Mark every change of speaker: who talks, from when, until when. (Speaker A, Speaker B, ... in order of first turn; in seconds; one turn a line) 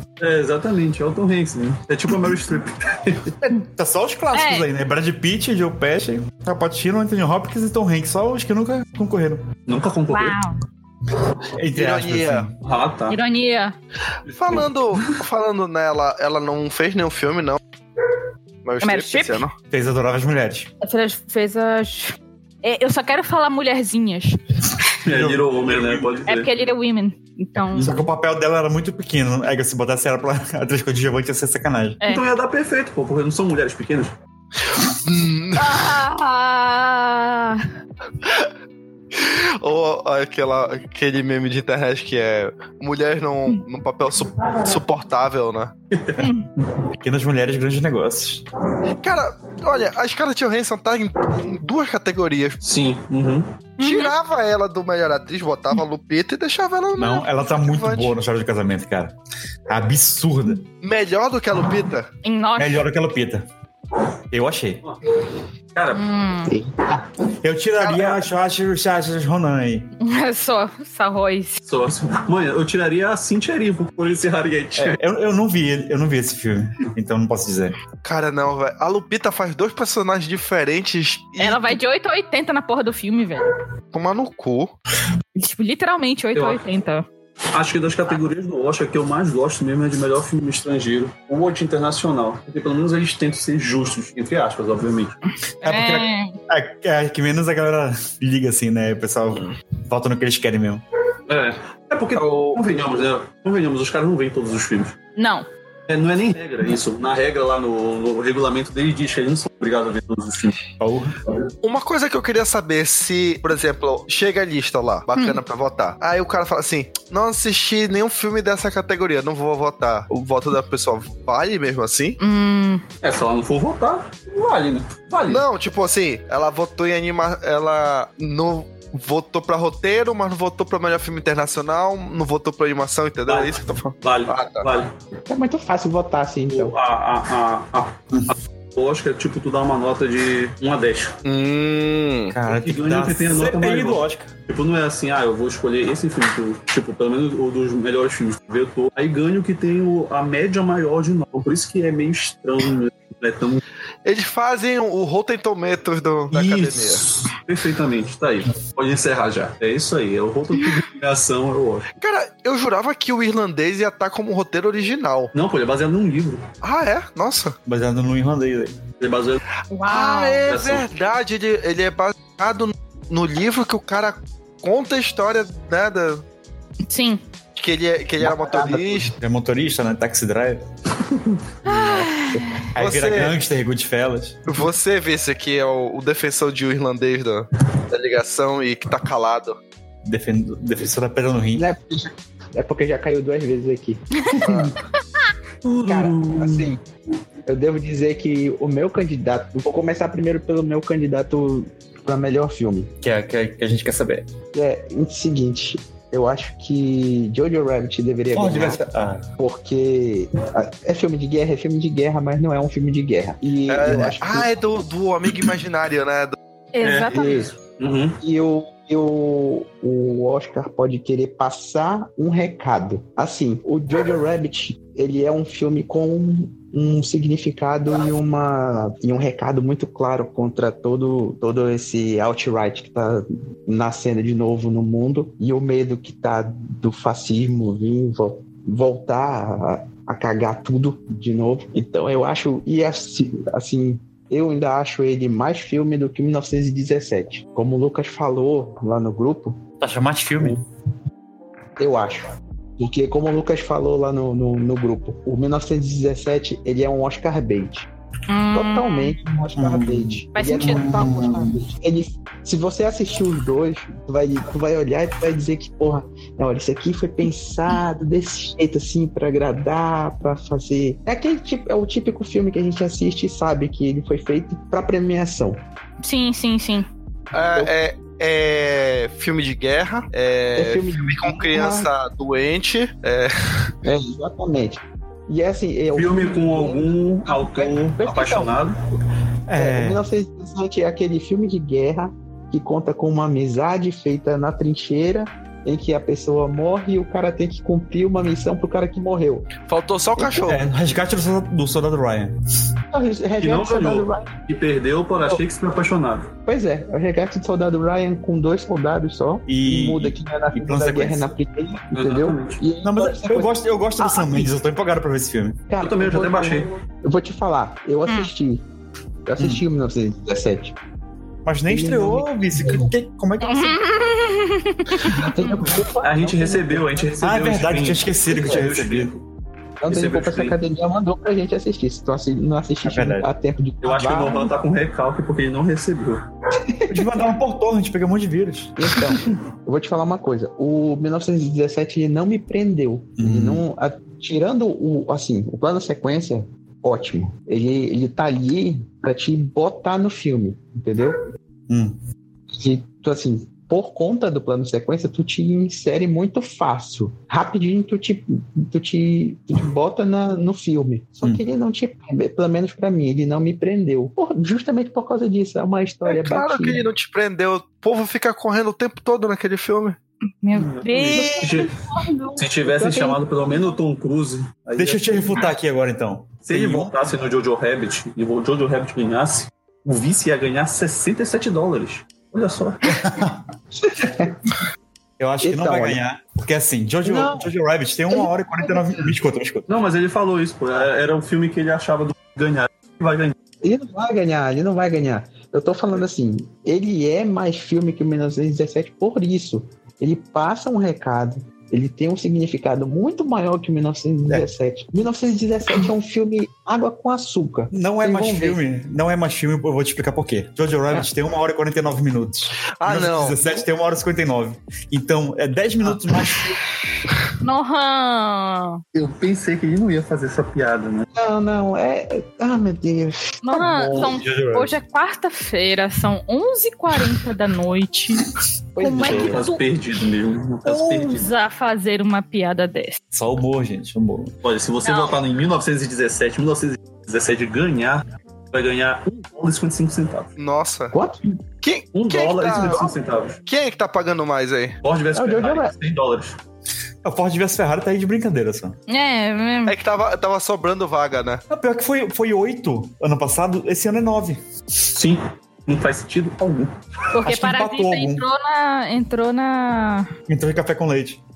Speaker A: 0.2-3.3
Speaker B: 3.4-9.4
Speaker C: 4.3-4.7
Speaker A: 9.7-10.4
Speaker C: 10.1-10.6
Speaker B: 11.6-12.5
Speaker D: 11.7-12.5
Speaker A: 12.6-13.2
Speaker C: 13.1-13.8
Speaker A: 14.3-14.7
Speaker D: 14.3-17.6
Speaker D: 18.6-19.5
Speaker C: 18.8-19.4
Speaker B: 19.7-20.7
Speaker C: 20.8-24.4
Speaker A: 25.0-26.5
Speaker B: 25.1-26.1
Speaker C: 26.3-28.0
Speaker A: 27.7-28.1
Speaker B: 27.8-32.0
Speaker A: 32.0-34.1
Speaker D: 34.9-35.9
Speaker C: 35.5-37.6
Speaker D: 39.1-45.7
Speaker A: 45.9-46.2
Speaker C: 46.2-46.5
Speaker B: 47.0-48.4
Speaker D: 49.0-52.6
Speaker A: 52.6-53.5
Speaker D: 53.8-58.1
Speaker C: 53.8-54.1
Speaker B: 57.0-59.1
Speaker B: 59.7-60.6
Speaker D: 60.8-62.1
Speaker C: 62.2-62.9
Speaker B: 62.6-63.5
Speaker B: 64.3-64.8
Speaker A: 65.7-66.1
Speaker C: 65.9-66.5
Speaker E: 66.5-67.0
Speaker B: 67.4-69.9
Speaker D: 67.8-68.2
Speaker C: 70.0-71.6
Speaker A: 71.6-75.0
Speaker B: 74.8-77.7
Speaker D: 78.0-81.8
Speaker C: 81.4-83.5
Speaker D: 83.9-84.7
Speaker C: 85.3-87.0
Speaker A: 86.3-86.6
Speaker A: 87.5-95.2
Speaker C: 95.6-96.3
Speaker B: 95.6-100.8
Speaker A: 101.3-105.0
Speaker D: 102.1-102.6
Speaker C: 105.2-105.5
Speaker A: 105.9-110.6
Speaker B: 110.8-111.2
Speaker D: 111.6-122.2
Speaker C: 122.2-122.8
Speaker A: 123.0-125.4
Speaker D: 125.3-134.7
Speaker A: 133.3-134.9
Speaker E: 135.3-136.7
Speaker A: 136.5-141.2
Speaker D: 141.2-142.3
Speaker B: 142.3-144.3
Speaker A: 142.5-153.6
Speaker D: 154.0-157.0
Speaker A: 156.3-161.9
Speaker D: 162.0-165.3
Speaker A: 165.3-166.5
Speaker D: 166.6-167.6
Speaker B: 167.7-168.8
Speaker A: 169.0-169.4
Speaker C: 169.7-170.4
Speaker D: 169.8-176.2
Speaker A: 170.4-170.9
Speaker C: 176.9-177.2
Speaker D: 177.6-179.1
Speaker E: 178.5-178.9
Speaker B: 179.1-180.6
Speaker B: 181.7-182.1
Speaker C: 181.7-182.5
Speaker B: 182.7-184.4
Speaker D: 182.8-183.3
Speaker D: 184.5-189.6
Speaker B: 190.0-191.6
Speaker E: 191.5-194.6
Speaker D: 194.4-194.7
Speaker A: 195.6-196.7
Speaker E: 195.8-196.8
Speaker E: 197.4-202.9
Speaker B: 203.0-204.3
Speaker E: 204.5-208.8
Speaker B: 208.3-209.2
Speaker E: 209.4-214.5
Speaker D: 213.7-216.3
Speaker C: 216.7-217.4
Speaker A: 216.8-218.2
Speaker E: 217.1-217.5
Speaker E: 218.2-249.6
Speaker B: 249.8-250.6
Speaker E: 251.8-257.9
Speaker C: 258.3-259.1
Speaker E: 258.5-275.6
Speaker B: 259.6-261.6
Speaker C: 260.3-261.2
Speaker C: 276.0-276.9
Speaker D: 277.3-283.7
Speaker E: 280.5-281.9
Speaker E: 283.8-288.6
Speaker A: 285.9-288.8
Speaker B: 289.5-290.0
Speaker E: 289.6-299.5
Speaker D: 299.7-300.6
Speaker E: 300.2-300.5
Speaker B: 300.5-302.3
Speaker E: 302.9-304.4
Speaker A: 303.4-306.3
Speaker E: 306.4-313.5
Speaker B: 309.5-311.3
Speaker A: 311.9-312.6
Speaker B: 312.8-315.6
Speaker C: 314.0-314.5
Speaker E: 315.7-318.6
Speaker A: 315.8-316.7
Speaker E: 319.2-320.7
Speaker B: 319.4-319.6
Speaker B: 321.4-323.8
Speaker E: 321.7-322.9
Speaker C: 323.4-325.1
Speaker E: 324.9-327.2
Speaker A: 326.0-329.2
Speaker B: 327.2-329.1
Speaker E: 329.8-334.5
Speaker A: 329.9-330.6
Speaker B: 332.8-333.3
Speaker A: 333.8-336.2
Speaker E: 336.7-337.1
Speaker B: 336.9-338.8
Speaker E: 338.8-351.2
Speaker B: 343.2-343.6
Speaker B: 351.7-352.0
Speaker E: 352.5-366.8
Speaker D: 366.0-370.0
Speaker C: 370.4-371.6
Speaker A: 370.5-371.7
Speaker E: 371.1-373.6
Speaker A: 372.4-375.5
Speaker B: 374.7-376.9
Speaker A: 376.4-382.9
Speaker B: 382.9-383.4
Speaker E: 383.8-384.4
Speaker B: 385.2-389.7
Speaker E: 385.4-386.0
Speaker E: 387.0-387.5
Speaker E: 388.1-389.1
Speaker A: 389.7-393.4
Speaker E: 393.6-408.6
Speaker B: 407.7-416.6
Speaker D: 412.8-413.4
Speaker C: 417.4-418.8
Speaker A: 418.9-421.1
Speaker E: 421.1-424.1
Speaker C: 423.4-429.6
Speaker B: 423.9-424.7
Speaker E: 428.7-429.4
Speaker A: 428.9-431.3
Speaker B: 429.0-429.3
Speaker C: 430.6-433.0
Speaker B: 433.1-434.3
Speaker A: 434.4-440.3
Speaker C: 434.8-435.2
Speaker D: 440.4-440.9
Speaker E: 440.9-441.4
Speaker D: 441.6-442.9
Speaker A: 441.9-443.4
Speaker D: 443.4-444.8
Speaker A: 444.8-446.4
Speaker E: 445.1-445.7
Speaker B: 447.0-448.8
Speaker C: 448.9-449.8
Speaker D: 449.7-451.4
Speaker B: 451.5-454.4
Speaker A: 454.9-456.7
Speaker C: 457.1-460.1
Speaker B: 457.2-458.2
Speaker B: 460.3-461.2